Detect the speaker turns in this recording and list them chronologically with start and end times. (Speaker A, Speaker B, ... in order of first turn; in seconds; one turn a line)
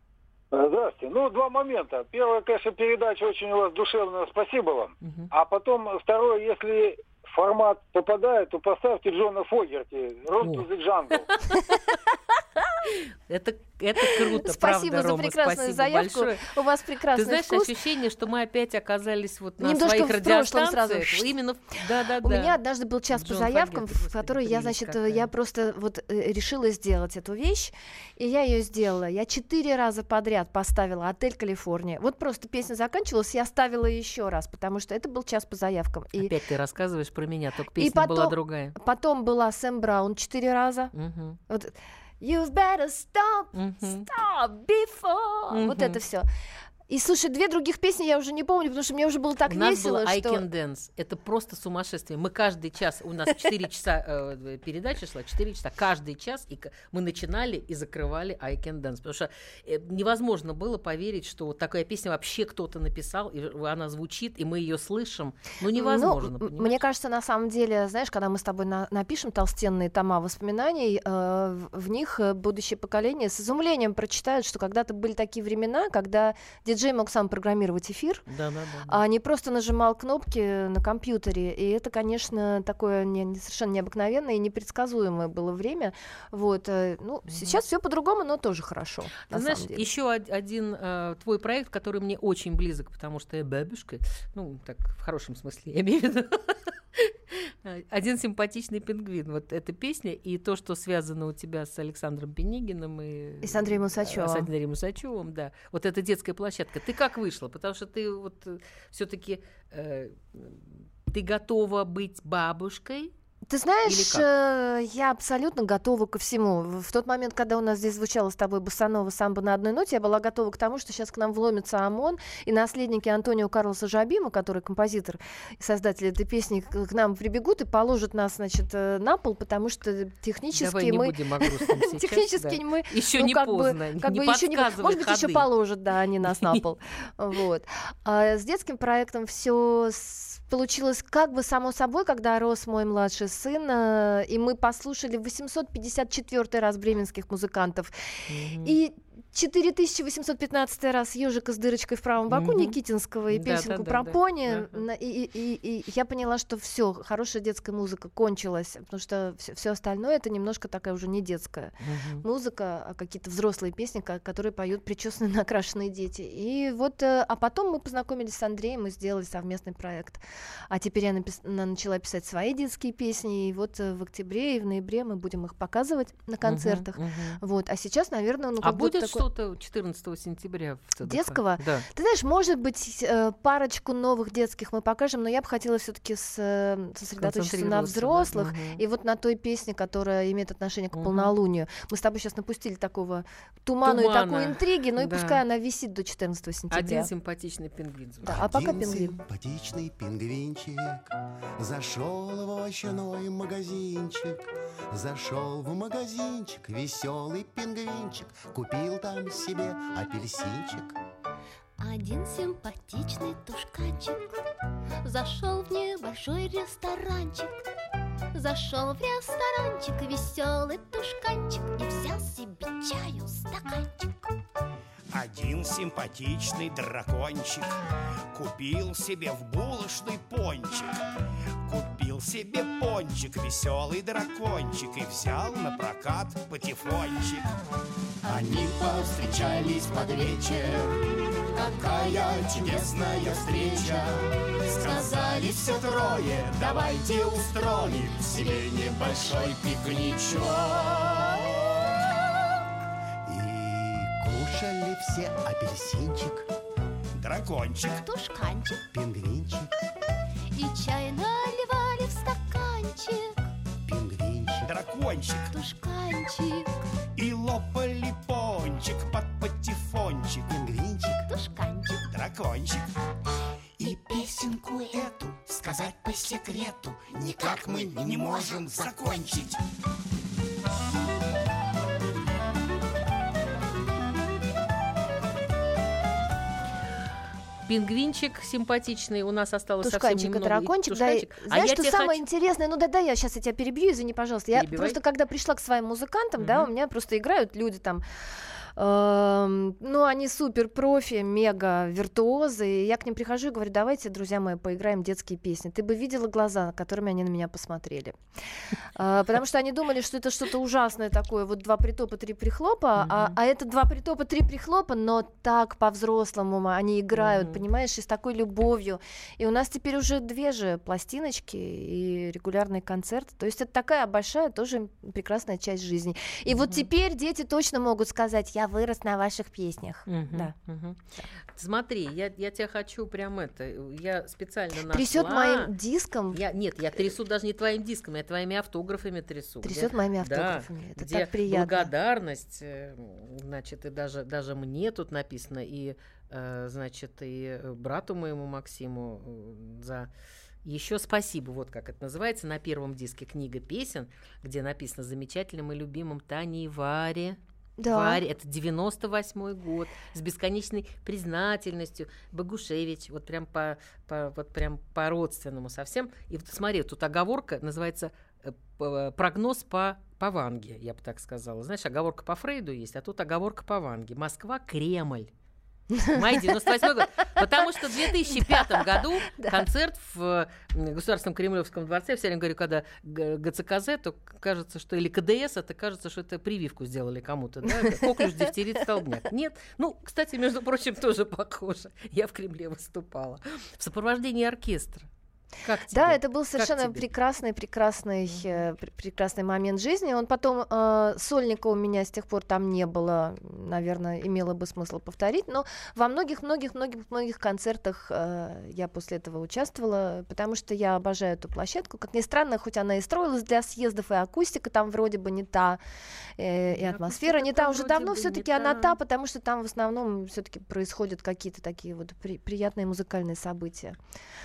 Speaker A: 0.5-11.2
Speaker B: 5.0-5.3
Speaker B: 10.4-11.8
Speaker B: 12.8-16.5
Speaker C: 14.0-17.7
Speaker B: 17.1-22.6
Speaker C: 19.6-21.4
Speaker C: 22.2-36.3
Speaker B: 23.1-25.3
Speaker B: 36.2-38.7
Speaker C: 37.8-40.9
Speaker B: 40.9-41.4
Speaker C: 41.5-46.3
Speaker B: 43.5-44.1
Speaker B: 45.5-46.0
Speaker C: 46.9-50.4
Speaker B: 49.5-66.8
Speaker C: 65.7-78.2
Speaker B: 78.3-79.0
Speaker C: 78.9-89.9
Speaker B: 87.3-87.5
Speaker B: 89.3-113.1
Speaker C: 103.4-104.5
Speaker C: 113.5-179.2
Speaker B: 113.8-114.3
Speaker B: 130.6-135.5
Speaker B: 136.2-136.6
Speaker B: 148.3-148.8
Speaker B: 152.3-152.8
Speaker B: 153.3-154.8
Speaker B: 161.8-162.2
Speaker B: 176.4-177.4
Speaker B: 178.6-181.8
Speaker C: 181.0-197.1
Speaker B: 187.2-188.8
Speaker B: 190.9-191.3
Speaker B: 193.8-195.4
Speaker B: 196.7-198.6
Speaker C: 198.2-199.2
Speaker D: 198.3-211.0
Speaker E: 211.8-214.3
Speaker E: 215.0-217.6
Speaker E: 218.3-224.3
Speaker F: 225.1-227.7
Speaker F: 228.3-231.0
Speaker F: 231.7-237.5
Speaker F: 238.3-240.6
Speaker E: 238.4-240.8
Speaker F: 241.6-244.1
Speaker E: 241.7-244.0
Speaker E: 244.7-246.1
Speaker F: 244.7-251.4
Speaker E: 246.7-247.3
Speaker E: 248.2-249.6
Speaker D: 253.2-256.5
Speaker F: 257.2-258.0
Speaker E: 258.0-258.8
Speaker D: 258.9-259.7
Speaker E: 260.5-263.4
Speaker D: 263.8-264.7
Speaker F: 264.6-265.5
Speaker E: 265.5-266.7
Speaker F: 267.1-270.5
Speaker D: 270.5-271.3
Speaker E: 271.2-272.1
Speaker F: 272.1-272.9
Speaker E: 273.8-277.7
Speaker F: 275.1-275.9
Speaker F: 277.2-279.6
Speaker D: 277.7-278.2
Speaker E: 278.3-278.6
Speaker B: 287.7-292.2
Speaker C: 289.8-298.0
Speaker B: 294.5-295.0
Speaker B: 296.4-296.7
Speaker C: 298.7-308.2
Speaker C: 308.9-330.5
Speaker B: 313.0-313.4
Speaker B: 317.2-317.6
Speaker B: 326.5-326.9
Speaker B: 330.1-331.0
Speaker B: 331.5-335.7
Speaker C: 334.9-336.4
Speaker B: 336.3-350.1
Speaker C: 339.6-341.9
Speaker B: 350.6-375.3
Speaker C: 357.8-358.2
Speaker C: 375.9-379.7
Speaker B: 376.1-395.1
Speaker C: 387.8-388.5
Speaker B: 395.6-397.0
Speaker C: 395.9-415.8
Speaker C: 416.4-424.0
Speaker B: 416.7-419.0